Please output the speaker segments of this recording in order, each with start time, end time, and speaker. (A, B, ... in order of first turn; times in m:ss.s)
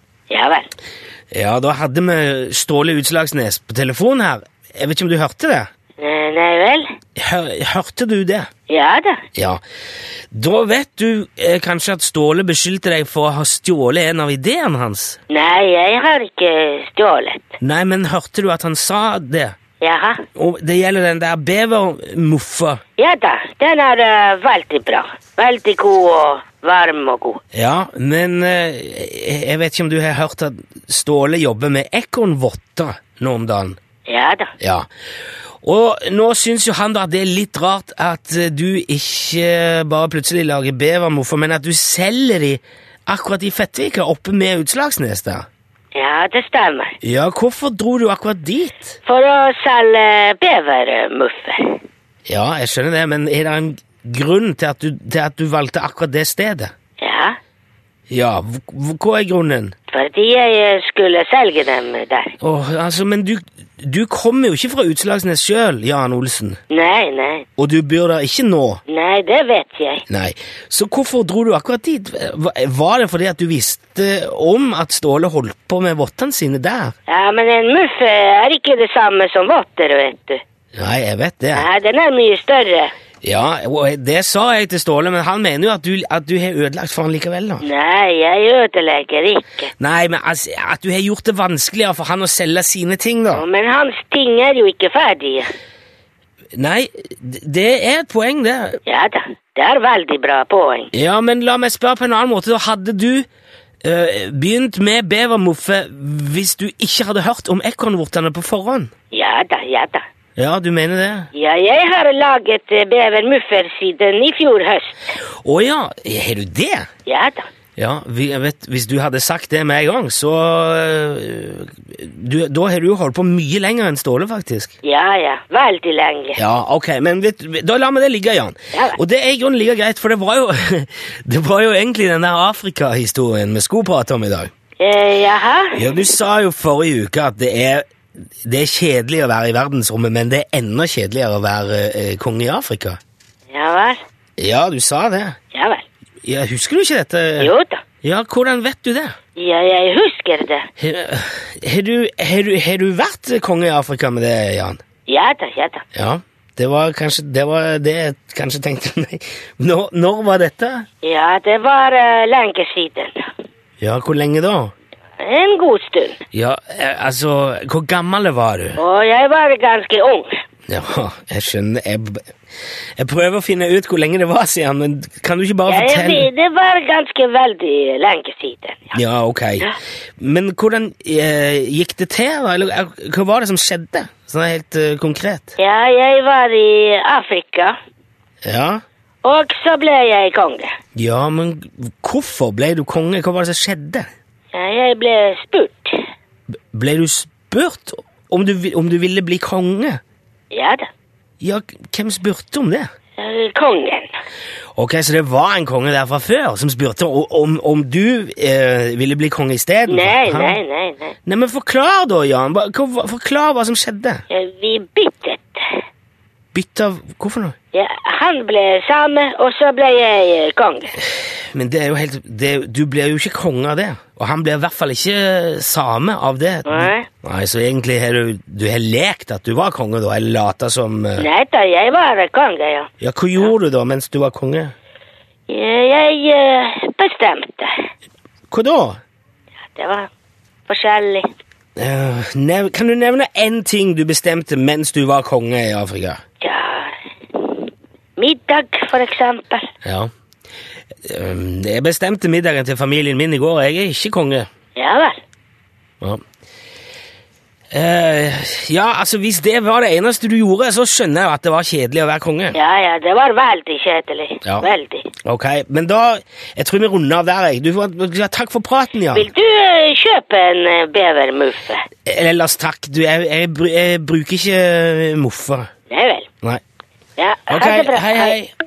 0:00.3-0:00.7 A
0:01.3-0:05.7 B
0:06.0-0:06.9 A
0:07.2-0:08.5 B
0:08.7-0:09.2 A
0:10.3-0:15.2 B
0:15.3-0:17.6 A
0:17.6-0:19.6 B
0:19.8-0:20.2 A
0:20.4-0:22.8 B
0:23.0-0:27.4 A
0:27.5-0:33.8 B
0:34.1-0:34.5 A
0:34.6-0:34.9 B
0:35.6-0:45.5 B
0:45.9-0:47.0 A
0:47.0-0:49.0 B
0:49.0-0:51.8 A
0:52.3-0:56.7 B
0:57.0-0:57.4 A
0:58.1-0:59.7 B
0:59.9-1:02.4 A
1:02.4-1:06.6 B
1:06.7-1:07.5 A
1:07.6-1:08.8 B
1:08.9-1:10.0 A
1:10.1-1:16.9 B
1:17.1-1:20.4 A
1:20.8-1:21.6 B
1:21.5-1:22.9 A
1:23.2-1:27.6 B
1:27.6-1:29.7 A
1:29.8-1:33.4 B
1:33.3-1:35.5 A
1:36.6-1:38.8 B
1:38.8-1:40.9 A
1:40.9-1:43.3 B
1:43.8-1:48.9 B
1:49.1-1:50.0 A
1:50.4-1:51.3 B
1:51.3-1:55.1 A
1:55.4-1:56.9 B
1:57.0-1:57.5 A
1:57.8-2:04.7 B
2:04.8-2:06.4 A
2:06.3-2:14.5 B
2:08.7-2:09.0 A
2:14.8-2:15.8 A
2:15.8-2:17.8 B
2:18.4-2:23.0 B
2:23.5-2:24.0 A
2:24.4-2:25.4 B
2:25.5-2:25.8 A
2:26.2-2:27.5 B
2:27.4-2:27.8 A
2:28.0-2:29.1 B
2:29.4-2:30.7 A
2:30.8-2:34.8 B
2:35.1-2:35.8 A
2:35.9-2:40.8 B
2:41.0-2:43.1 A
2:43.8-2:44.7 B
2:45.2-2:46.2 A
2:46.3-2:48.8 B
2:48.8-2:50.4 A
2:50.7-2:52.3 B
2:53.0-2:56.3 B
2:55.7-2:59.0 A
2:58.9-3:05.5 B
3:05.6-3:07.7 A
3:08.4-3:08.8 B
3:09.2-3:10.7 A
3:11.0-3:14.1 B
3:14.5-3:16.0 A
3:16.7-3:20.0 B
3:20.5-3:20.9 A
3:21.4-3:22.9 B
3:23.2-3:24.1 A
3:24.8-3:30.6 B
3:29.9-3:31.2 A
3:31.2-3:34.2 B
3:34.3-3:35.8 A
3:36.5-3:37.5 B
3:37.7-3:41.0 A
3:41.5-3:51.2 B
3:46.6-3:47.1 A
3:51.2-3:53.5 A
3:53.0-3:54.7 B
3:55.5-3:57.7 A
3:58.5-3:59.0 B
3:59.7-4:00.1 A
4:00.7-4:01.3 A
4:01.8-4:06.2 B
4:06.4-4:07.6 A
4:08.2-4:09.7 A
4:09.8-4:10.1 B
4:11.0-4:14.5 B
4:14.8-4:15.2 A
4:17.7-4:22.6 B
4:22.5-4:25.1 A
4:25.2-4:29.3 B
4:29.1-4:31.8 A
4:32.0-4:35.7 B
4:35.9-4:36.3 A
4:37.2-4:38.4 A
4:37.5-4:38.5 B